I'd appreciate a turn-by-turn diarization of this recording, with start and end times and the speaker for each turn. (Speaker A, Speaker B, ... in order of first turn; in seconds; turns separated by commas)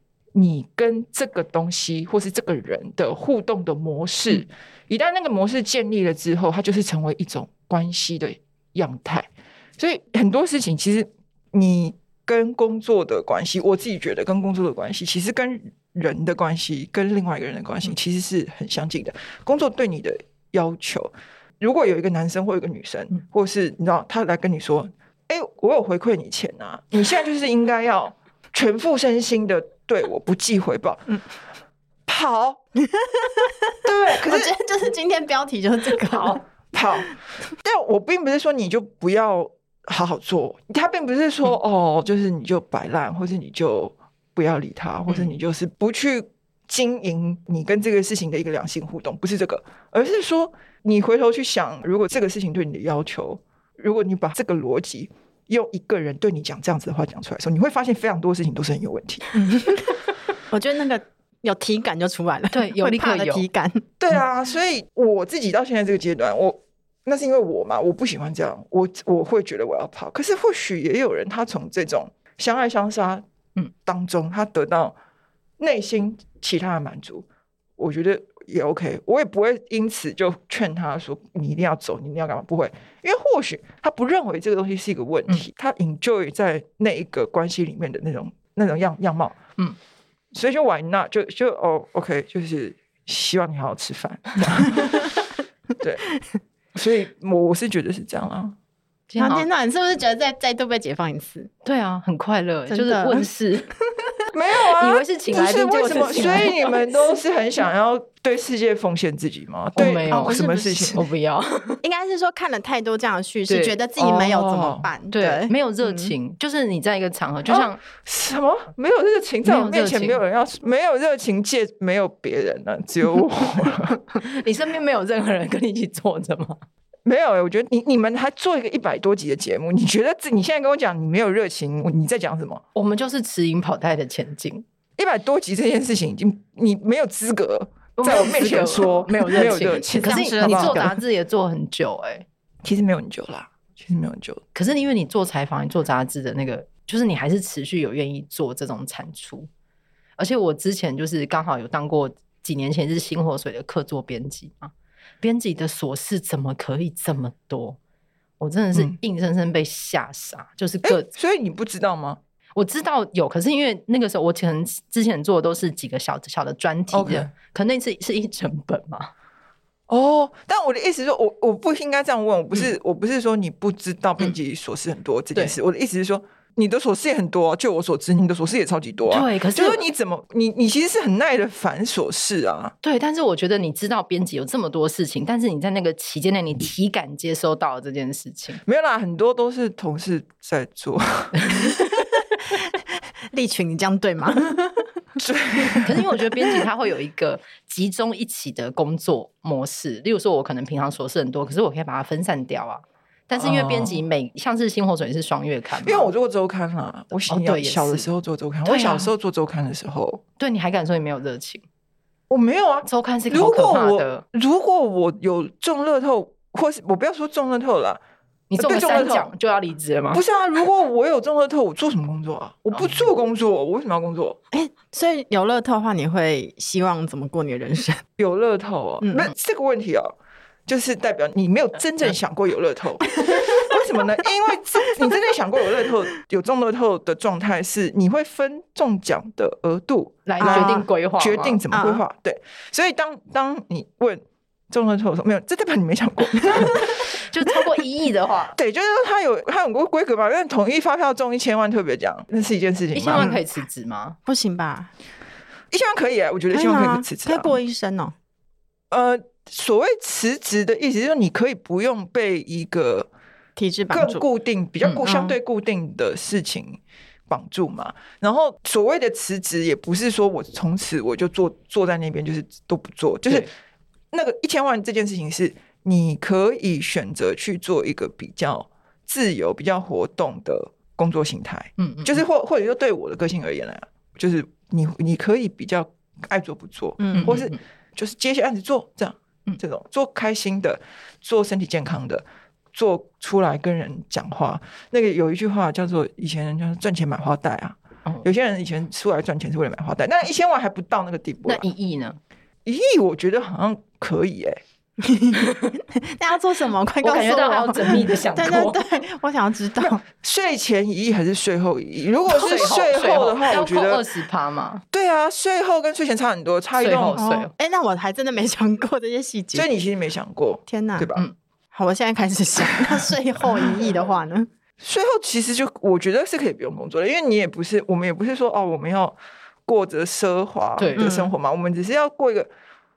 Speaker A: 0.3-31.2, Speaker A: 32.1-32.6, Speaker B: 32.9-33.5, Speaker A: 33.8-34.5, Speaker B: 34.2-36.4, Speaker A: 36.7-59.4, Speaker B: 59.3-59.9, Speaker B: 60.5-63.9, Speaker C: 62.5-63.4, Speaker A: 64.0-73.2, Speaker A: 73.8-74.9, Speaker A: 75.6-77.2, Speaker A: 77.8-89.4, Speaker A: 90.3-95.2, Speaker A: 96.7-98.5, Speaker C: 99.1-99.5, Speaker B: 99.2-101.5, Speaker C: 101.6-103.7, Speaker B: 102.7-103.3, Speaker A: 104.3-111.0, Speaker C: 104.7-106.7, Speaker C: 109.8-111.8, Speaker B: 109.8-111.0, Speaker B: 111.8-116.1, Speaker C: 113.5-113.8, Speaker A: 114.0-114.9, Speaker C: 115.1-117.8, Speaker A: 117.5-124.0, Speaker C: 119.4-120.2, Speaker C: 124.2-126.6, Speaker A: 127.0-132.6, Speaker C: 132.7-134.6, Speaker A: 135.0-140.9, Speaker C: 138.0-142.2, Speaker B: 139.9-140.9, Speaker A: 142.6-144.4, Speaker C: 144.5-149.5, Speaker C: 150.2-157.8, Speaker C: 158.4-161.1, Speaker A: 160.8-162.2, Speaker C: 162.6-169.1, Speaker A: 166.9-167.3, Speaker A: 169.9-182.7, Speaker C: 179.1-179.8, Speaker C: 182.8-188.6, Speaker A: 188.6-191.5, Speaker C: 191.4-191.7, Speaker B: 193.3-194.8, Speaker A: 195.2-196.0, Speaker C: 195.8-206.1, Speaker A: 203.4-204.0, Speaker A: 205.8-210.2, Speaker C: 207.3-208.1, Speaker C: 208.6-209.1, Speaker C: 210.4-211.6, Speaker A: 212.3-218.0, Speaker C: 212.8-214.2, Speaker C: 218.5-220.2, Speaker A: 218.6-219.3, Speaker A: 220.1-224.4, Speaker C: 222.8-223.1, Speaker B: 224.5-228.0, Speaker A: 228.2-230.1, Speaker B: 229.0-229.3, Speaker A: 230.7-247.0, Speaker B: 233.2-233.7, Speaker C: 240.2-241.6, Speaker B: 240.4-240.8, Speaker B: 241.7-242.0, Speaker C: 247.1-248.6, Speaker A: 248.6-253.3, Speaker C: 252.9-254.2, Speaker B: 253.1-253.4, Speaker B: 254.2-254.9, Speaker A: 255.7-257.6, Speaker B: 256.5-258.1, Speaker A: 258.9-263.1, Speaker B: 263.6-264.2, Speaker A: 263.9-273.5, Speaker B: 265.0-265.4, Speaker A: 274.1-301.6, Speaker C: 281.8-282.2, Speaker B: 287.0-287.3, Speaker C: 287.1-287.6, Speaker C: 301.4-302.2, Speaker A: 302.6-304.6, Speaker B: 305.0-310.0, Speaker C: 305.3-305.7, Speaker C: 307.0-308.8, Speaker A: 309.8-314.0, Speaker C: 312.3-314.8, Speaker A: 314.9-317.2, Speaker C: 316.8-317.5, Speaker B: 317.1-319.7, Speaker A: 319.5-321.2, Speaker B: 320.7-321.1, Speaker B: 321.7-324.5, Speaker A: 324.8-332.5, Speaker C: 330.8-331.1, Speaker B: 331.0-331.3